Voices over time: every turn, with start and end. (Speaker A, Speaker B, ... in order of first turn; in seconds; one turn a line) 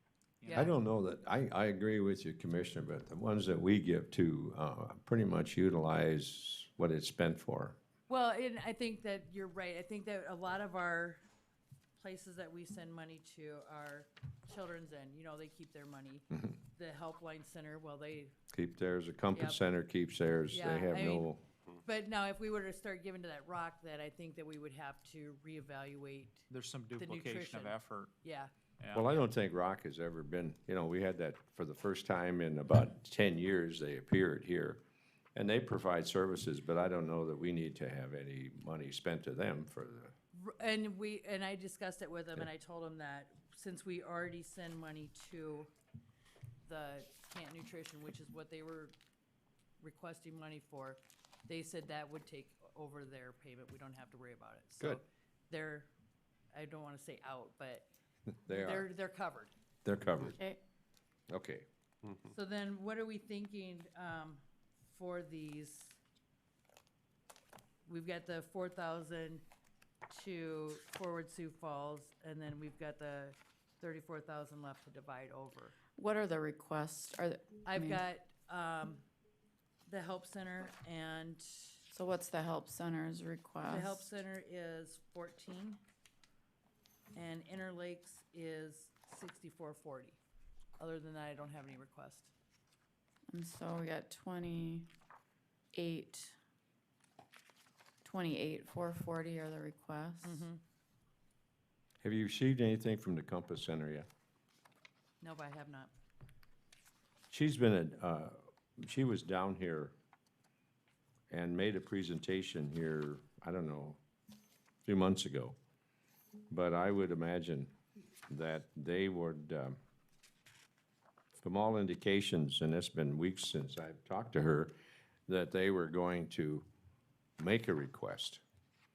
Speaker A: 0.4-0.7
Speaker B: 0.5-0.8
Speaker C: 0.5-7.8
Speaker B: 8.1-11.2
Speaker B: 12.0-18.3
Speaker C: 18.5-21.5
Speaker B: 19.3-19.7
Speaker B: 20.5-21.3
Speaker B: 21.8-26.5
Speaker A: 26.5-28.1
Speaker B: 27.0-28.5
Speaker A: 28.8-29.1
Speaker C: 28.9-34.8
Speaker C: 35.4-40.1
Speaker B: 40.3-45.7
Speaker B: 46.6-48.9
Speaker B: 49.8-55.9
Speaker B: 56.5-57.9
Speaker B: 58.5-59.5
Speaker C: 58.5-58.9
Speaker C: 59.9-60.4
Speaker D: 60.2-60.6
Speaker C: 61.3-61.7
Speaker B: 62.3-66.0
Speaker B: 67.8-69.4
Speaker B: 70.1-75.8
Speaker D: 76.0-78.0
Speaker B: 77.7-79.0
Speaker B: 79.9-81.8
Speaker D: 81.9-84.1
Speaker B: 83.7-85.8
Speaker B: 87.1-90.2
Speaker B: 90.8-92.3
Speaker D: 93.3-94.9
Speaker D: 95.7-96.4
Speaker D: 98.0-100.5
Speaker B: 100.2-100.6
Speaker C: 102.0-104.1
Speaker B: 105.2-105.9
Speaker C: 107.3-109.9
Speaker C: 111.3-114.0
Speaker C: 114.9-115.6
Speaker C: 116.5-117.7
Speaker C: 118.3-119.8
Speaker C: 121.4-124.7
Speaker C: 125.3-126.7
Speaker C: 127.4-128.4